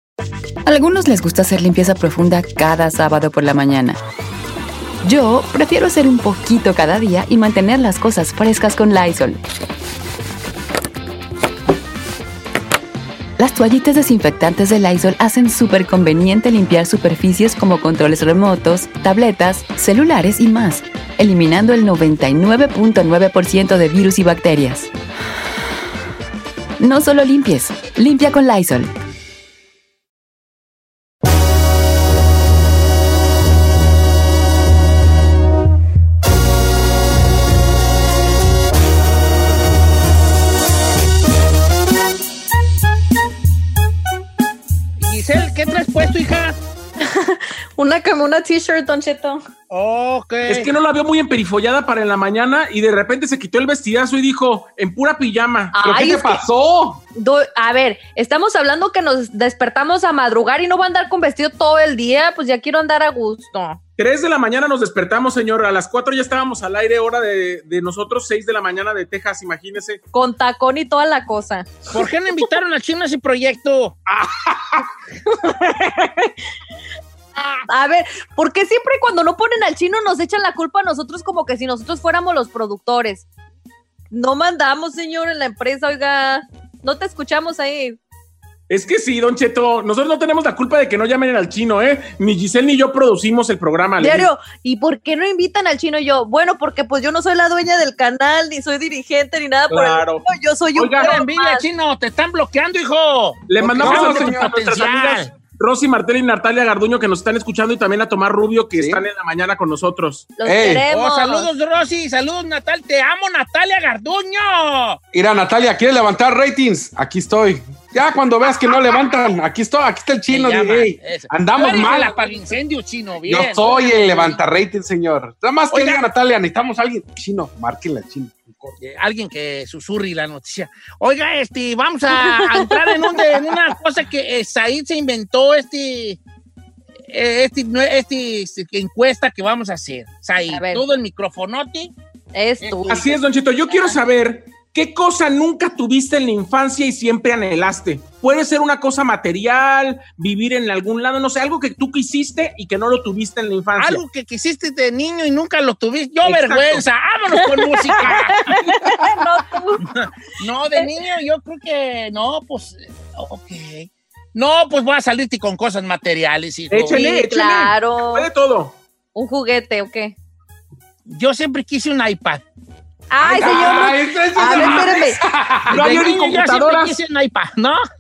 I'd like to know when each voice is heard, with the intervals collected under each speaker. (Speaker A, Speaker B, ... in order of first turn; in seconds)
Speaker A: 0.7-4.0, 5.0-9.4, 13.4-24.9, 26.8-28.9
Speaker B: 45.0-46.6, 49.7-50.7, 71.9-74.1, 101.0-105.3, 110.9-115.0, 120.3-124.4, 125.7-126.1, 128.8-136.2, 137.1-141.9, 142.6-143.2, 153.8-158.4, 160.4-167.0, 171.1-172.4, 175.7-177.8
Speaker C: 47.0-49.5, 55.7-56.4, 57.1-63.8, 70.1-71.7, 77.4-83.3, 84.1-88.0, 94.0-101.7, 110.3-111.5, 121.6-122.0, 132.1-133.0, 140.5-140.8, 142.3-143.1, 143.7-144.0, 157.4-159.9, 166.9-168.3, 169.2-170.2, 173.1-175.2
Speaker D: 50.5-55.8, 64.0-70.0, 88.7-94.3, 99.7-101.2, 103.5-110.3, 142.9-154.0, 156.3-156.8, 166.7-168.8, 175.7-177.0
Speaker E: 55.8-57.0, 103.7-104.5, 108.7-109.0, 110.5-110.9, 115.1-122.2, 123.3-128.8, 173.2-175.8